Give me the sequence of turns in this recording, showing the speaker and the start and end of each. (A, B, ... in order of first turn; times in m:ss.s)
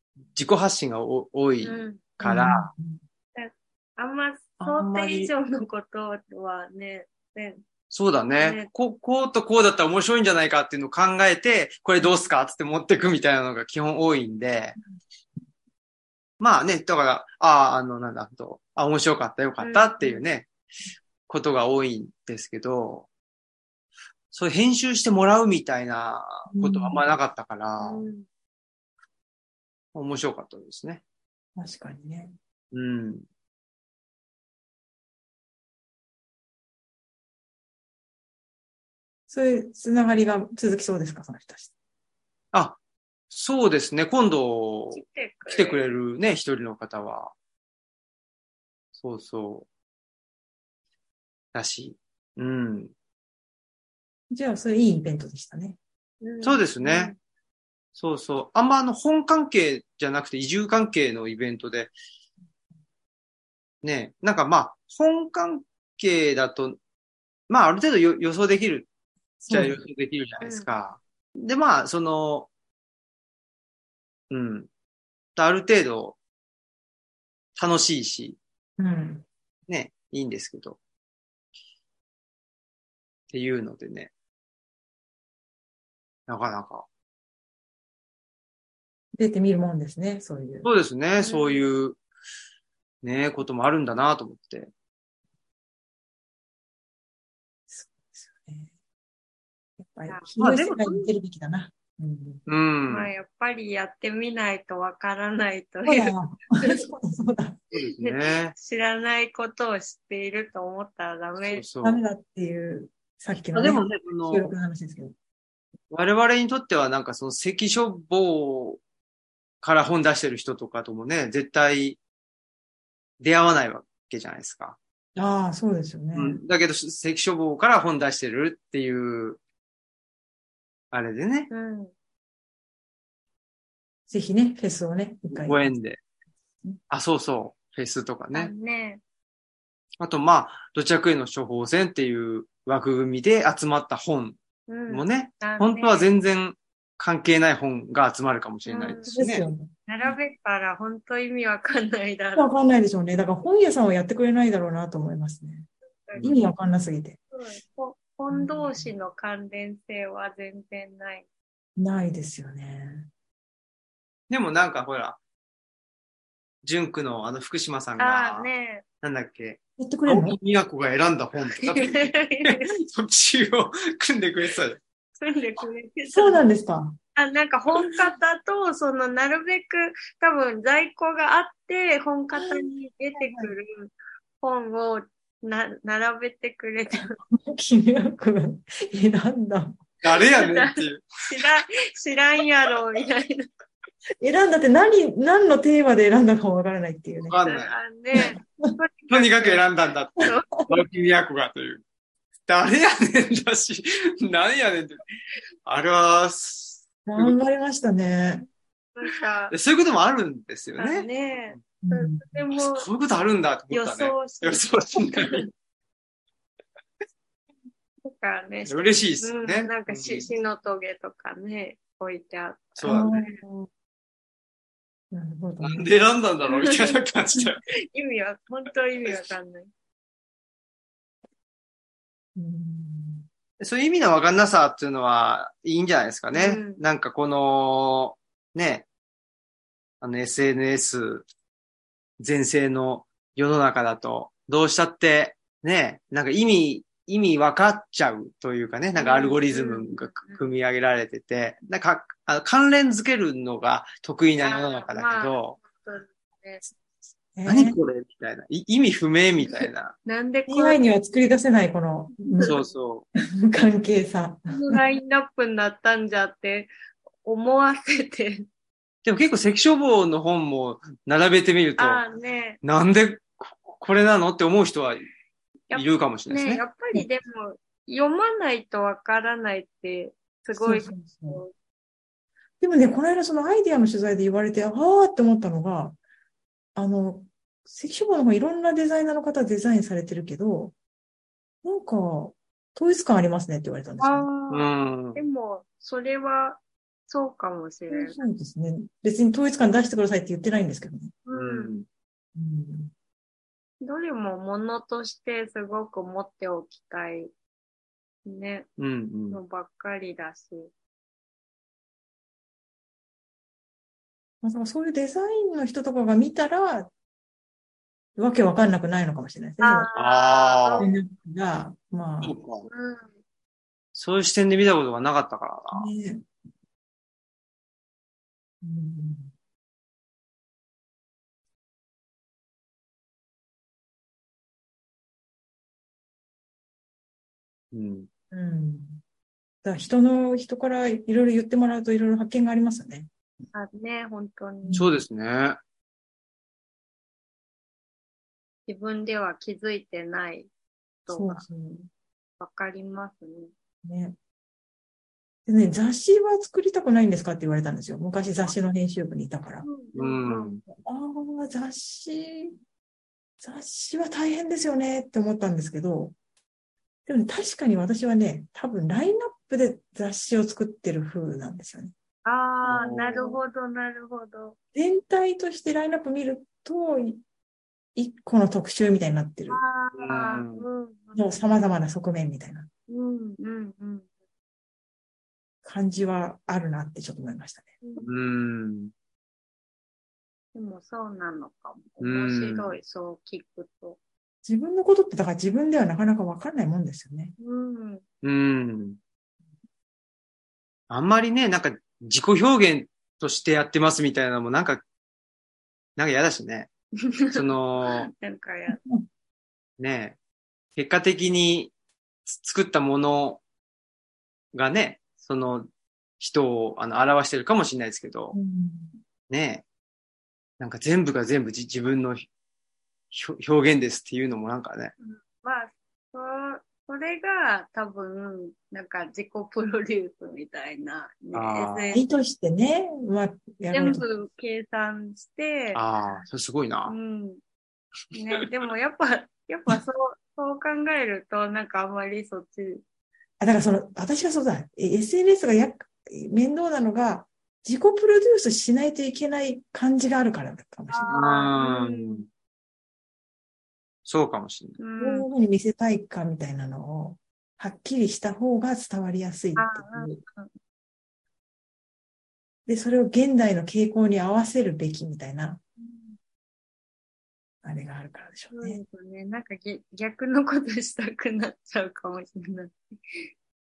0:00.3-0:02.7 A
0:01.6-0:02.0 B
0:02.2-0:03.0 C
0:03.3-0:07.6 B
0:04.6-0:05.3 A
0:07.9-0:14.8 A
0:08.3-0:08.7 B
0:16.4-0:20.5 A
0:19.6-0:20.2 B
0:21.3-0:23.1 A
0:24.3-0:28.1 A
0:26.5-0:27.0 C
0:27.8-0:28.2 B
0:29.9-0:31.0 A
0:31.6-0:32.3 C
0:32.7-0:33.2 A
0:39.3-0:41.7 C
0:42.5-0:42.8 A
0:43.3-0:47.3 A
0:44.9-0:45.8 B
0:49.0-0:49.7 A
0:51.5-0:52.9 A
0:54.3-0:55.8 C
0:56.2-0:57.2 B
0:56.4-0:57.1 A
0:58.0-1:01.9 A
1:03.8-1:06.8 A
1:07.5-1:08.9 A
1:09.4-1:12.5 A
1:09.5-1:09.8 C
1:10.4-1:10.7 B
1:14.3-1:14.7 A
1:15.4-1:16.2 A
1:17.6-1:18.4 A
1:18.8-1:19.2 C
1:19.7-1:20.8 A
1:23.3-1:24.1 A
1:26.3-1:26.8 A
1:29.1-1:30.7 C
1:30.6-1:32.0 A
1:31.2-1:31.6 B
1:33.0-1:34.7 A
1:37.7-1:38.7 C
1:39.8-1:42.4 C
1:40.4-1:41.1 A
1:42.4-1:43.1 A
1:42.9-1:46.8 B
1:45.8-1:47.6 C
1:47.7-1:48.5 A
1:48.0-1:51.6 B
1:51.4-1:52.0 A
1:51.8-1:55.1 C
1:53.5-1:54.5 A
1:55.9-1:58.8 A
1:59.6-2:02.0 A
2:03.2-2:04.8 A
2:05.2-2:06.4 C
2:06.1-2:09.4 A
2:10.9-2:11.5 A
2:11.5-2:11.9 B
2:14.1-2:15.8 C
2:15.3-2:16.0 A
2:16.9-2:18.5 A
2:18.3-2:19.0 B
2:20.0-2:24.4 A
2:24.7-2:26.1 B
2:24.9-2:29.5 A
2:28.6-2:29.2 B
2:29.1-2:29.7 C
2:29.9-2:32.5 B
2:32.3-2:35.7 C
2:36.0-2:36.3 B
2:36.2-2:36.4 A
2:36.2-2:37.2 C
2:37.3-2:41.2 B
2:38.3-2:38.9 C
2:41.8-2:43.1 C
2:44.3-2:45.2 A
2:46.6-2:48.5 A
2:48.0-2:48.8 B
2:49.0-2:54.8 A
2:49.8-2:50.4 C
2:51.6-2:52.7 B
2:55.2-2:56.4 B
2:56.1-2:57.0 C
2:57.2-3:07.2 B
3:02.3-3:03.5 C
3:07.2-3:09.8 C
3:10.0-3:11.1 A
3:10.1-3:13.5 B
3:14.2-3:17.4 C
3:17.2-3:17.7 A
3:17.4-3:19.6 B
3:18.1-3:18.7 C
3:19.1-3:21.8 A
3:20.2-3:20.6 B
3:22.5-3:25.0 A
3:25.6-3:27.3 A
3:27.0-3:28.4 C
3:29.0-3:29.5 B
3:29.5-3:31.6 A
3:30.8-3:32.9 B
3:31.8-3:32.4 C
3:32.6-3:35.5 A
3:33.7-3:35.4 B
3:38.0-3:43.4 B
3:38.6-3:40.3 A
3:42.8-3:43.2 A
3:42.8-3:43.7 C
3:45.1-3:45.9 C
3:45.6-3:47.6 A
3:46.5-3:47.4 B
3:47.9-3:49.7 B
3:52.4-3:53.3 C
3:53.6-3:58.8 A
3:56.3-3:56.8 B
4:00.0-4:01.2 A
4:02.2-4:15.6 A
4:09.0-4:10.5 B
4:14.4-4:16.6 B
4:17.3-4:17.8 C
4:17.4-4:19.9 A
4:20.0-4:20.8 B
4:20.5-4:22.6 C
4:22.2-4:22.7 B
4:22.4-4:23.0 A
4:23.2-4:24.8 C
4:24.5-4:26.7 B
4:27.2-4:28.4 B
4:29.0-4:32.0 A
4:31.8-4:32.6 B
4:32.6-4:35.0 A
4:35.7-4:41.5 B
4:35.7-4:36.6 A
4:40.5-4:41.4 C
4:42.6-4:46.0 C
4:46.7-4:50.7 C
4:51.6-4:54.3 C
4:54.0-4:58.2 B
4:54.5-4:55.2 A
4:57.9-5:01.1 C
5:01.2-5:01.8 B
5:01.3-5:01.8 A
5:02.4-5:02.9 C
5:03.8-5:07.3 B
5:08.2-5:08.7 B
5:08.8-5:09.4 A
5:09.3-5:10.7 B
5:14.4-5:16.9 C
5:18.2-5:19.9 C
5:19.6-5:20.9 B
5:19.9-5:20.9 A
5:20.8-5:22.4 C
5:22.2-5:22.7 A
5:22.6-5:23.2 B
5:23.9-5:25.9 A
5:25.7-5:26.2 C
5:28.6-5:29.3 C
5:37.7-5:38.1 A
5:38.3-5:39.0 C
5:39.6-5:43.1 C
5:43.5-5:44.8 B
5:44.6-5:45.0 C
5:44.8-5:45.6 A
5:48.7-5:50.5 B
5:51.0-5:51.4 B
5:51.1-5:51.9 C
5:52.4-5:53.5 B
5:53.8-5:54.1 C
5:55.4-5:59.6 C
5:59.6-6:00.6 B
5:59.9-6:00.6 A
6:00.7-6:02.6 C
6:03.4-6:06.2 C
6:07.0-6:11.9 C
6:12.2-6:14.6 B
6:12.6-6:13.4 A
6:14.7-6:17.2 C
6:18.0-6:19.6 C
6:19.5-6:21.3 B
6:19.9-6:20.6 A
6:21.1-6:22.7 C
6:22.9-6:24.1 B
6:25.6-6:27.7 C
6:27.8-6:28.1 B
6:28.0-6:28.9 A
6:30.5-6:34.0 B
6:32.0-6:32.7 A
6:34.4-6:37.3 C
6:37.4-6:38.0 B
6:38.2-6:39.0 A
6:40.9-6:44.8 A
6:46.0-6:46.7 A
6:47.1-6:48.8 B
6:47.3-6:48.1 A
6:48.7-6:49.0 C
6:49.8-6:50.2 A
6:50.8-6:51.7 A
6:52.3-6:53.4 A
6:54.5-6:55.7 A
6:56.2-6:58.4 A
6:58.3-6:59.0 C
6:59.3-6:59.6 A
7:00.6-7:02.3 A
7:03.1-7:04.9 A
7:05.0-7:12.0 B
7:11.3-7:11.9 A
7:11.9-7:14.0 C
7:13.7-7:15.8 B
7:15.7-7:17.0 A
7:16.9-7:17.4 B
7:18.1-7:22.8 B
7:23.4-7:31.2 C
7:30.9-7:32.2 B
7:31.1-7:32.2 A
7:34.0-7:34.8 A
7:34.8-7:35.3 B
7:35.0-7:40.2 C
7:39.6-7:40.5 B
7:42.7-7:45.6 C
7:45.8-7:46.2 B
7:47.6-7:48.8 C
7:48.5-7:52.8 B